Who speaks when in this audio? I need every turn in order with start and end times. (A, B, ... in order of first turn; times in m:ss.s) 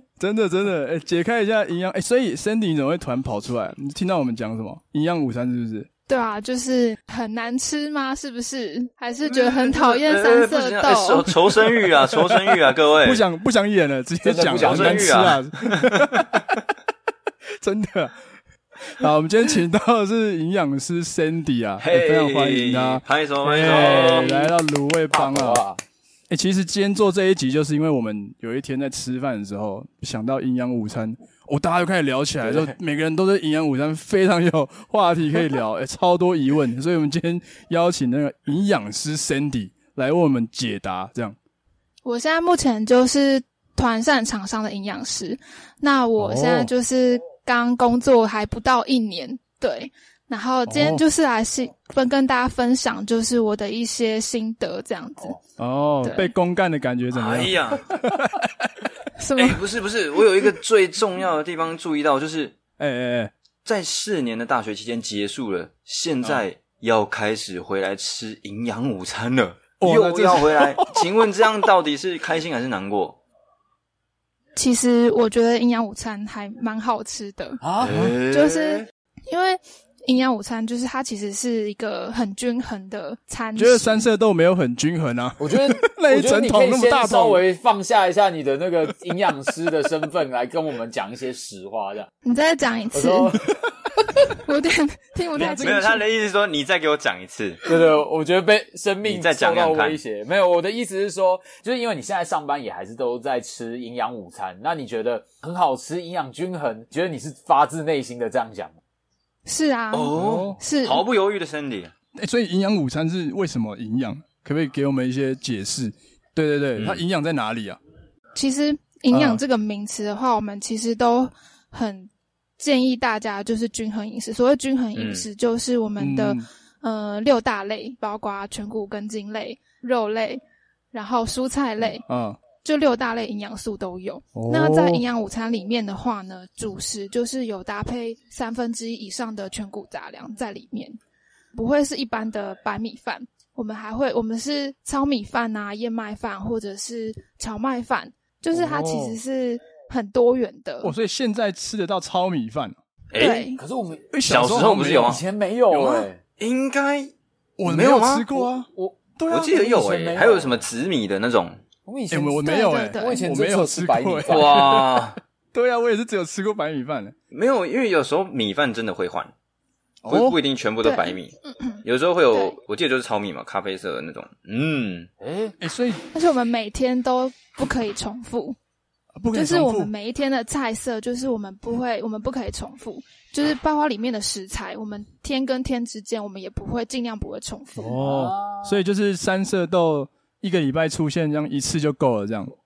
0:00.2-0:05.9 A
0:06.1-0:11.3 B
0:09.6-0:13.2 C
0:13.0-0:16.5 A
0:14.2-0:15.2 D
0:14.5-0:16.2 C
0:17.6-0:18.2 A
0:18.8-0:25.6 A
0:21.8-0:24.4 C
0:23.5-0:24.5 D
0:25.1-0:25.8 D
0:26.3-0:41.4 A
0:32.4-0:32.7 D
0:42.0-0:55.4 B
0:46.2-0:46.7 A
0:50.7-0:51.0 A
0:55.6-0:58.9 A
0:56.0-0:56.3 B
0:57.1-0:57.8 C
0:59.2-0:59.6 B
0:59.4-1:02.5 C
1:02.8-1:03.3 A
1:03.6-1:13.2 C
1:09.8-1:11.1 A
1:14.6-1:17.6 B
1:17.6-1:18.1 D
1:17.8-1:18.8 C
1:17.9-1:18.2 A
1:18.3-1:24.1 B
1:23.6-1:27.4 A
1:25.4-1:32.1 D
1:32.2-1:33.4 B
1:32.9-1:33.5 D
1:34.3-1:36.0 B
1:35.3-1:36.0 A
1:35.4-1:37.6 C
1:37.6-1:48.8 D
1:39.0-1:40.0 C
1:49.4-1:51.0 B
1:49.9-1:51.9 C
1:50.1-1:50.6 A
1:52.2-1:57.8 A
1:58.3-2:10.4 B
1:59.1-1:59.4 A
2:05.0-2:05.2 C
2:06.0-2:06.5 A
2:10.9-2:12.0 B
2:12.1-2:12.4 A
2:12.6-2:21.0 B
2:14.3-2:15.0 A
2:21.5-2:30.9 B
2:28.6-2:29.1 A
2:30.8-2:32.8 A
2:33.1-2:33.5 C
2:33.2-2:33.6 B
2:33.6-2:34.1 D
2:34.1-2:35.2 A
2:34.2-2:35.2 C
2:34.8-2:36.2 D
2:35.7-2:36.0 B
2:36.4-2:37.1 C
2:37.6-2:39.6 A
2:37.6-2:38.3 C
2:38.4-2:40.6 D
2:39.3-2:41.6 C
2:41.8-2:44.8 D
2:42.1-2:47.1 A
2:42.4-2:43.2 B
2:44.3-2:45.2 C
2:47.3-2:49.3 C
2:50.0-2:50.4 A
2:50.1-2:55.1 C
2:50.8-2:52.6 B
2:55.2-2:55.5 D
2:55.6-2:56.0 A
2:56.1-2:58.6 B
2:59.2-2:59.9 A
2:59.3-3:08.0 B
3:07.8-3:12.5 A
3:08.0-3:08.8 D